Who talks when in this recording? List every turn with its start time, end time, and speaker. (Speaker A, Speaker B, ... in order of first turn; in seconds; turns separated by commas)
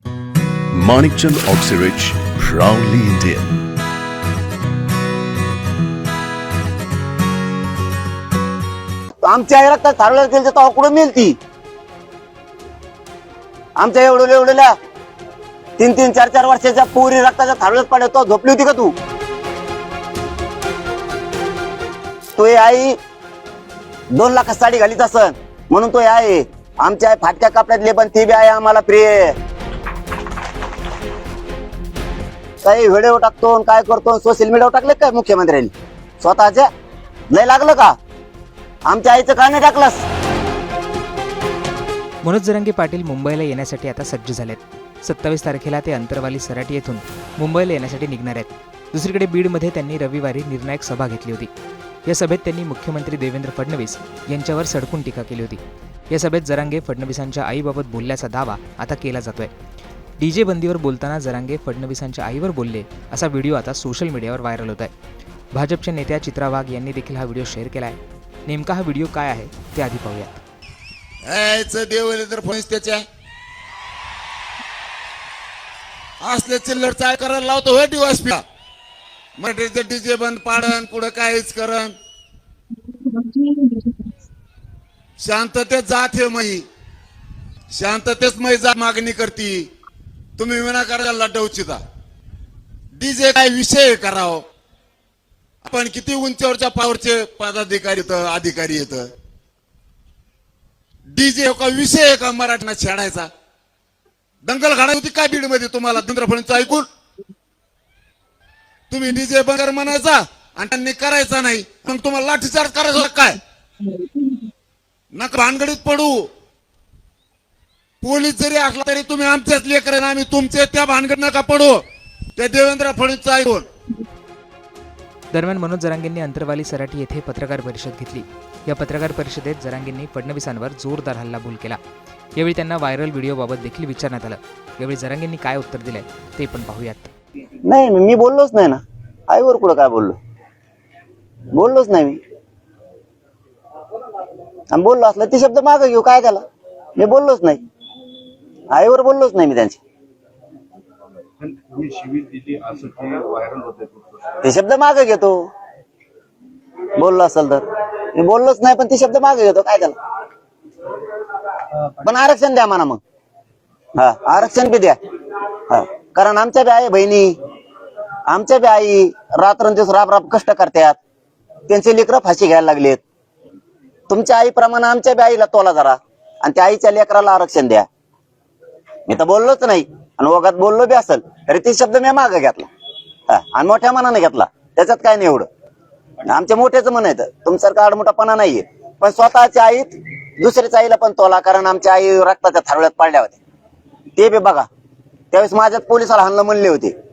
Speaker A: 0.7-3.6, Speaker B: 9.2-11.4, Speaker B: 13.8-14.7, Speaker B: 15.8-18.9, Speaker B: 22.4-23.0, Speaker B: 24.1-29.4, Speaker B: 32.6-36.7, Speaker B: 37.3-38.0, Speaker B: 38.9-40.0, Speaker C: 42.2-51.5, Speaker C: 52.1-55.6, Speaker C: 56.1-59.5, Speaker C: 60.2-64.9, Speaker C: 65.5-70.4, Speaker D: 71.3-73.0, Speaker D: 76.2-78.4, Speaker D: 79.4-81.9, Speaker D: 85.2-86.7, Speaker D: 87.7-89.7, Speaker D: 90.4-91.8, Speaker D: 93.0-94.4, Speaker D: 95.6-99.1, Speaker D: 101.1-103.3, Speaker D: 104.5-106.9, Speaker D: 108.9-113.4, Speaker D: 115.1-116.3, Speaker D: 118.0-121.8, Speaker D: 122.4-123.7, Speaker C: 125.3-131.8, Speaker C: 132.4-137.1, Speaker B: 137.7-140.2, Speaker B: 141.5-142.2, Speaker B: 144.7-146.4, Speaker B: 147.0-147.6, Speaker B: 148.7-149.8, Speaker E: 151.4-154.4, Speaker B: 154.4-155.5, Speaker B: 157.0-160.0, Speaker B: 162.0-163.0, Speaker B: 163.9-165.0, Speaker B: 165.7-167.4, Speaker B: 168.3-171.0, Speaker B: 171.7-173.0, Speaker B: 174.1-177.8, Speaker B: 179.1-182.7, Speaker B: 183.3-185.5, Speaker B: 186.2-193.4, Speaker B: 194.2-194.7, Speaker B: 195.3-196.9